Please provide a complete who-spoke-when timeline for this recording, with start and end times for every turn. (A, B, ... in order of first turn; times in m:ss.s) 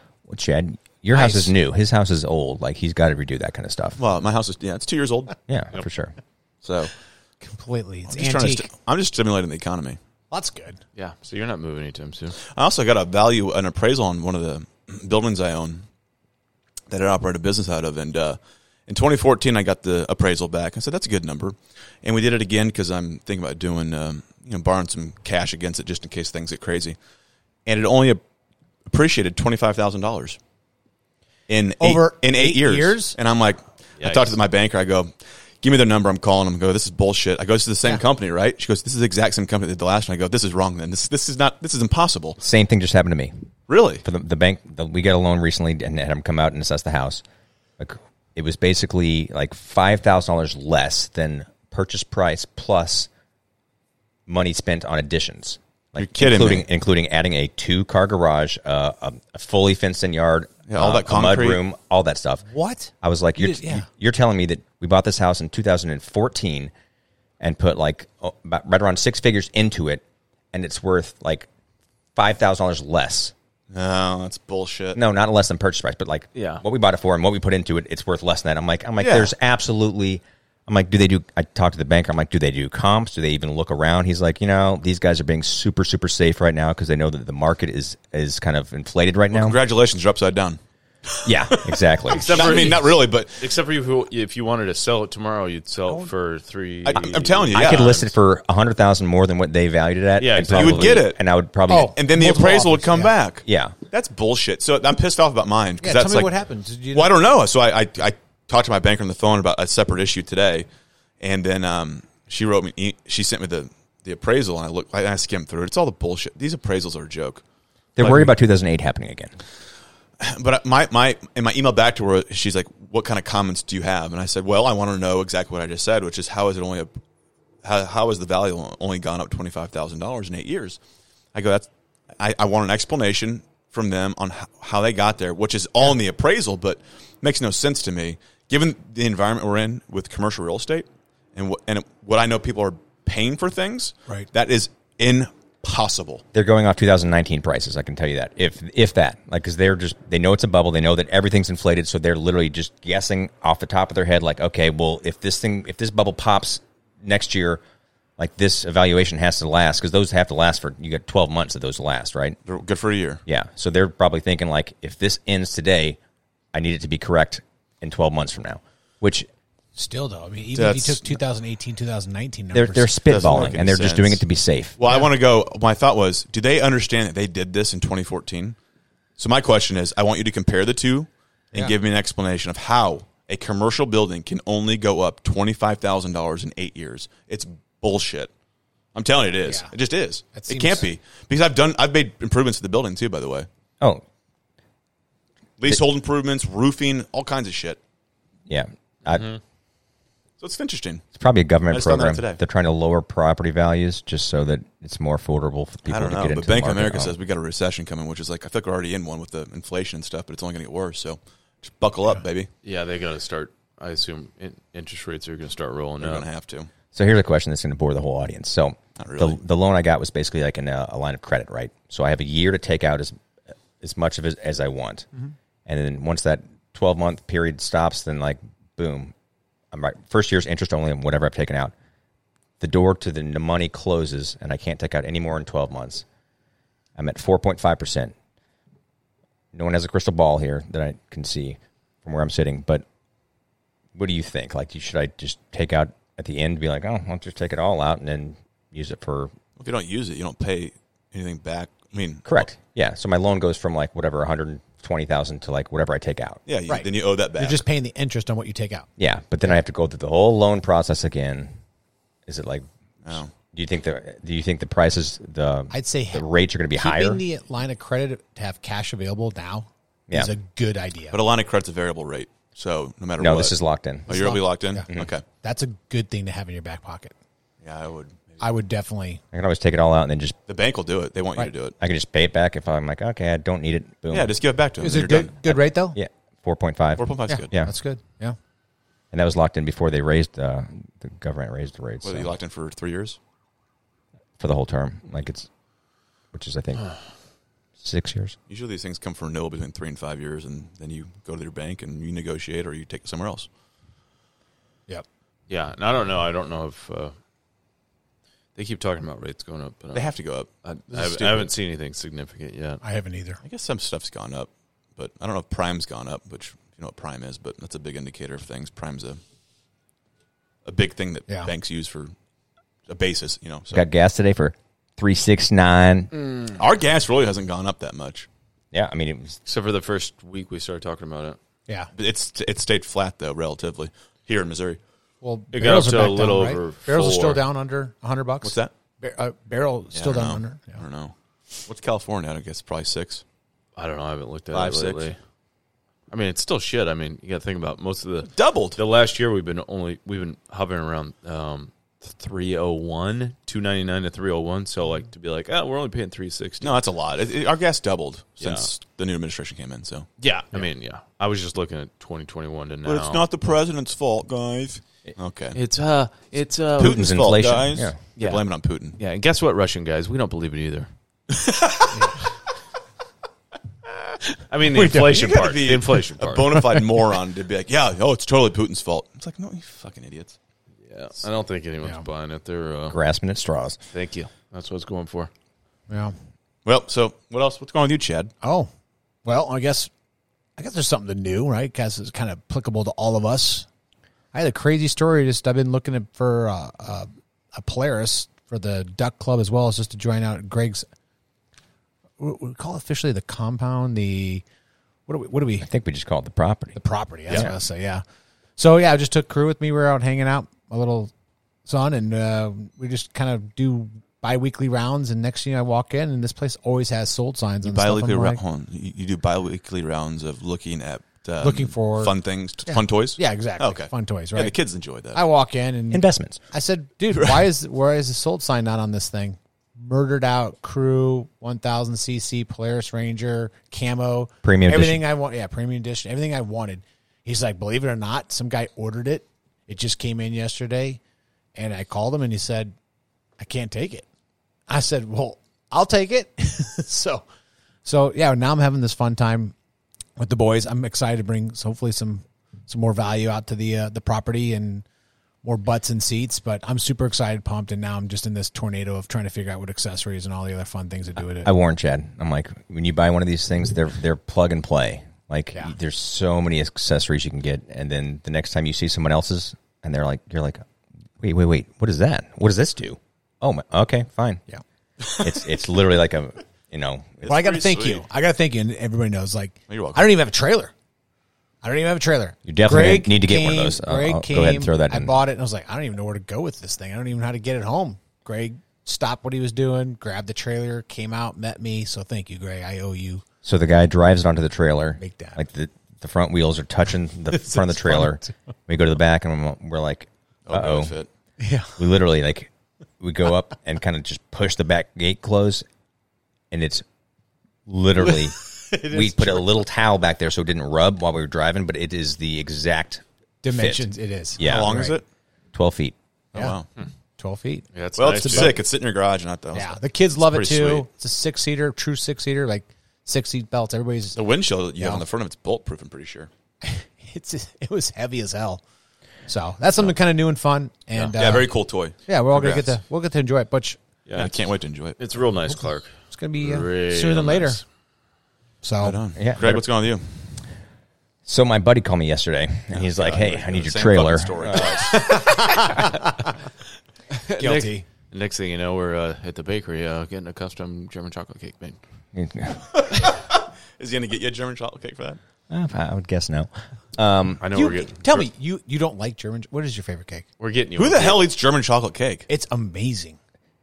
0:00.3-0:04.0 A
0:01.1-0:01.5 B
0:04.0-0:05.4 C
0:05.5-0:06.1 A
0:06.6-0:06.9 C
0:07.4-0:08.7 B
0:08.1-0:10.0 C
0:10.3-0:10.8 B
0:11.0-0:12.4 D
0:12.4-0:15.8 C
0:16.9-0:27.0 C
0:27.6-0:28.2 C
0:28.9-0:30.4 C
0:31.5-0:42.4 C
0:31.8-0:33.2 B
0:34.0-0:34.4 D
0:42.4-0:43.3 A
0:43.7-0:44.0 C
0:44.0-0:47.2 A
0:47.8-0:53.1 A
0:54.3-1:02.5 A
0:56.0-0:56.6 C
1:00.7-1:01.6 C
1:02.5-1:03.8 B
1:03.0-1:06.7 A
1:07.4-1:11.5 A
1:12.1-1:13.3 A
1:13.7-1:15.0 C
1:14.9-1:29.6 A
1:16.3-1:16.6 D
1:19.0-1:19.3 C
1:29.3-1:30.6 C
1:31.1-1:31.7 C
1:31.2-1:32.5 A
1:32.1-1:38.1 D
1:32.3-1:33.4 C
1:36.8-1:37.9 C
1:37.0-1:41.9 A
1:40.2-1:41.1 D
1:40.5-1:46.3 C
1:41.7-1:43.1 B
1:43.4-1:43.7 A
1:45.8-1:47.2 B
1:46.9-1:50.7 C
1:51.2-1:57.4 C
1:58.0-1:58.3 C
1:58.0-1:59.3 A
2:00.2-2:06.9 C
2:07.6-2:10.8 C
2:11.3-2:26.2 C
2:26.3-2:37.6 A
2:38.2-2:42.4 A
2:42.4-2:43.2 C
2:43.2-2:46.0 A
2:46.5-2:49.3 A
2:49.8-2:53.5 B
2:50.5-2:51.2 C
2:52.5-2:54.8 A
2:53.0-2:54.2 C
2:54.8-2:58.6 C
2:59.2-3:08.3 C
3:08.9-3:13.5 C
3:09.4-3:09.7 B
3:10.3-3:10.9 B
3:15.6-3:17.8 C
3:18.5-3:19.3 A
3:19.1-3:19.4 D
3:20.4-3:21.0 C
3:21.1-3:27.2 A
3:21.7-3:22.4 C
3:25.9-3:32.5 C
3:32.6-3:36.2 D
3:36.0-3:36.7 C
3:36.9-3:43.1 A
3:39.0-3:39.4 C
3:43.8-3:45.1 A
3:45.6-3:49.1 A
3:49.7-3:51.7 A
3:52.6-3:56.0 A
3:57.0-3:58.1 A
3:59.5-4:02.8 A
4:03.9-4:09.3 A
4:09.6-4:12.4 C
4:12.2-4:16.4 A
4:16.4-4:17.6 C
4:16.7-4:18.9 B
4:19.0-4:21.5 A
4:22.3-4:22.7 A
4:23.0-4:23.3 C
4:23.3-4:27.2 A
4:25.7-4:31.2 B
4:31.1-4:33.6 C
4:33.2-4:34.4 A
4:34.1-4:35.2 C
4:34.1-4:34.9 B
4:35.4-4:37.1 B
4:37.6-4:38.4 C
4:38.4-4:39.2 B
4:39.3-4:40.4 A
4:40.5-4:41.8 C
4:41.8-4:44.4 A
4:44.1-4:45.4 C
4:44.8-4:46.0 B
4:45.9-4:47.7 A
4:47.0-4:47.5 C
4:47.3-4:48.4 B
4:49.1-4:52.3 A
4:52.0-4:53.2 C
4:54.4-4:55.5 A
4:56.3-4:56.9 A
4:57.8-4:58.4 A
4:58.5-5:03.5 C
5:05.5-5:07.1 D
5:08.6-5:10.1 D
5:09.9-5:11.5 C
5:10.6-5:12.8 D
5:12.8-5:13.4 B
5:13.4-5:19.2 C
5:20.6-5:22.1 C
5:22.9-5:23.8 C
5:23.7-5:26.1 A
5:26.2-5:26.5 D
5:26.5-5:28.3 C
5:28.7-5:29.4 A
5:29.4-5:31.4 D
5:31.9-5:34.8 C
5:35.2-5:40.8 B
5:35.5-5:37.4 D
5:38.4-5:38.7 C
5:39.9-5:41.1 C
5:41.6-5:43.2 C
5:43.8-5:45.2 D
5:44.5-5:45.1 C
5:46.1-5:56.8 D
5:48.3-5:48.8 C
5:56.6-6:00.1 C
5:58.4-5:58.7 D
6:00.2-6:03.3 D
6:02.8-6:05.6 C
6:05.5-6:07.0 D
6:06.8-6:08.0 A
6:06.8-6:09.0 C
6:08.2-6:10.9 D
6:11.3-6:12.0 C
6:11.9-6:12.2 B
6:14.5-6:16.5 D
6:14.7-6:15.4 B
6:15.0-6:20.4 C
6:20.9-6:23.0 D
6:22.9-6:23.8 A
6:23.9-6:25.3 D
6:25.9-6:26.1 B
6:26.6-6:28.3 C
6:28.4-6:28.7 B
6:29.2-6:29.9 B
6:30.6-6:33.7 B
6:34.3-6:40.8 B
6:42.2-6:44.4 B
6:45.1-6:45.7 B
6:45.6-6:47.5 A
6:46.7-6:48.0 B
6:48.6-6:51.1 B
6:51.6-6:58.4 B
6:57.6-7:05.2 C
7:01.4-7:02.1 B
7:02.6-7:04.6 B
7:05.1-7:21.0 B
7:05.9-7:06.4 A
7:07.1-7:07.4 C
7:14.4-7:15.0 A
7:21.5-7:22.7 B
7:23.4-7:24.0 B
7:24.7-7:27.2 B
7:27.8-7:29.5 B
7:30.2-7:34.8 B
7:35.4-7:41.5 B
7:41.4-7:50.6 A
7:51.2-7:54.4 A
7:55.1-7:57.3 A
7:57.2-7:58.0 C
7:57.2-8:00.7 B
7:59.7-8:00.1 C
8:01.6-8:13.2 B
8:02.4-8:05.2 A
8:13.4-8:21.0 A
8:15.0-8:15.4 B
8:17.3-8:18.3 B
8:20.4-8:21.1 C
8:21.4-8:21.8 B
8:21.8-8:25.6 A
8:26.5-8:26.8 A
8:27.7-8:34.8 A
8:28.0-8:29.6 B
8:33.4-8:35.0 B
8:34.4-8:35.0 C
8:35.5-8:35.9 A
8:36.3-8:36.7 C
8:37.2-8:38.6 B
8:37.7-8:38.6 D
8:38.0-8:39.8 C
8:39.5-8:44.2 B
8:40.3-8:40.8 D
8:44.2-8:46.3 C
8:44.8-8:45.0 B
8:46.6-8:48.6 B
8:49.3-8:51.5 B
8:51.1-8:52.8 C
8:52.0-8:53.8 B
8:54.1-8:54.4 D
8:54.2-8:55.0 C
8:55.0-8:57.6 D
8:56.1-8:57.6 B
8:58.6-8:59.0 B
8:58.8-9:00.2 C
8:59.2-8:59.6 A
9:01.2-9:04.9 A
9:02.7-9:05.2 C
9:04.9-9:06.3 B
9:07.1-9:11.8 D
9:07.4-9:07.8 B
9:12.1-9:12.9 A
9:13.0-9:15.2 C
9:15.5-9:17.4 A
9:17.4-9:18.3 D
9:17.5-9:20.2 B
9:20.4-9:21.2 D
9:20.8-9:22.2 C
9:22.3-9:23.2 B